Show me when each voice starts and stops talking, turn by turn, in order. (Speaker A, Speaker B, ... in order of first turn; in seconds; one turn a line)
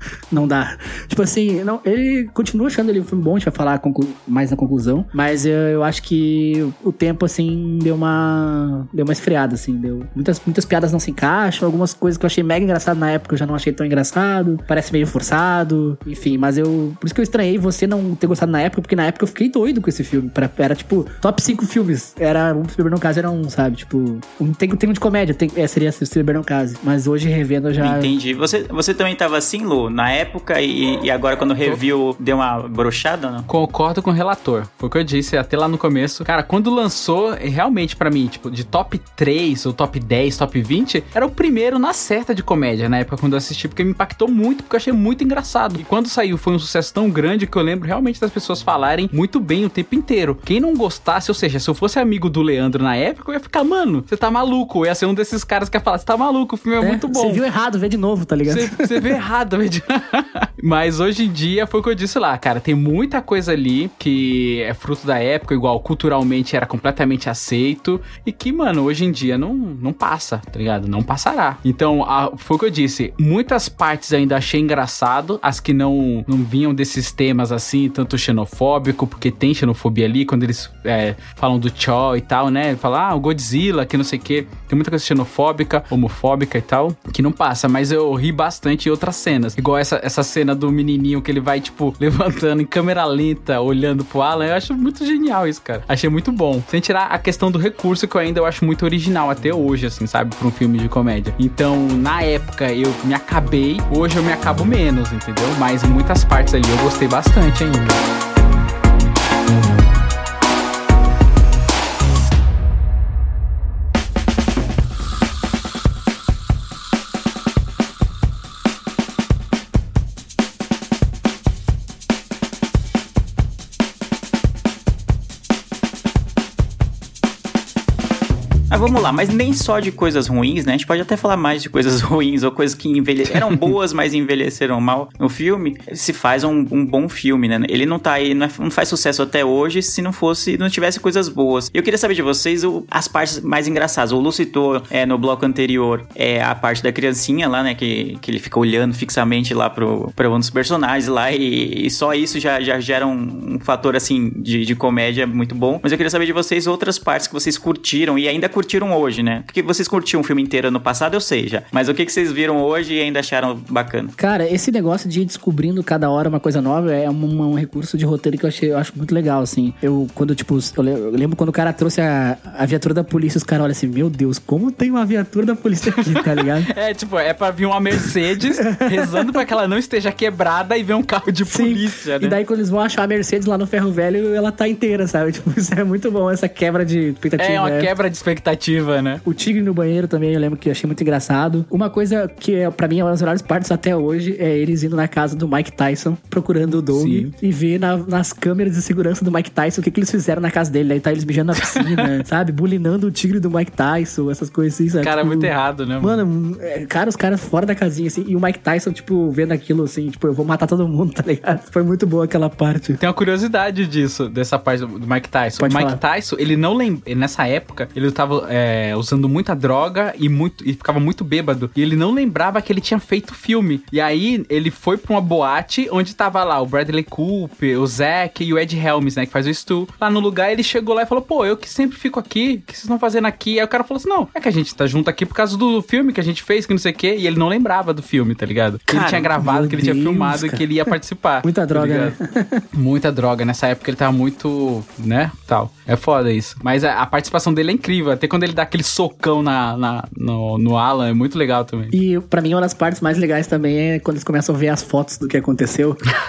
Speaker A: 0.3-28.1
Speaker B: 27.8-33.5
Speaker C: 33.5-57.4
Speaker A: 56.8-59.1
Speaker C: 58.5-108.0
Speaker B: 128.7-164.1
Speaker A: 164.2-176.7
Speaker C: 176.7-182.4
Speaker A: 178.7-179.3
Speaker A: 181.5-187.9
Speaker C: 187.4-189.2
Speaker A: 189.2-213.0
Speaker C: 196.9-197.3
Speaker C: 201.7-202.0
Speaker C: 205.0-206.2
Speaker C: 213.0-242.1
Speaker A: 215.6-216.0
Speaker B: 238.9-239.2
Speaker A: 239.3-240.9
Speaker A: 241.4-242.6
Speaker C: 242.7-251.9
Speaker A: 251.9-256.0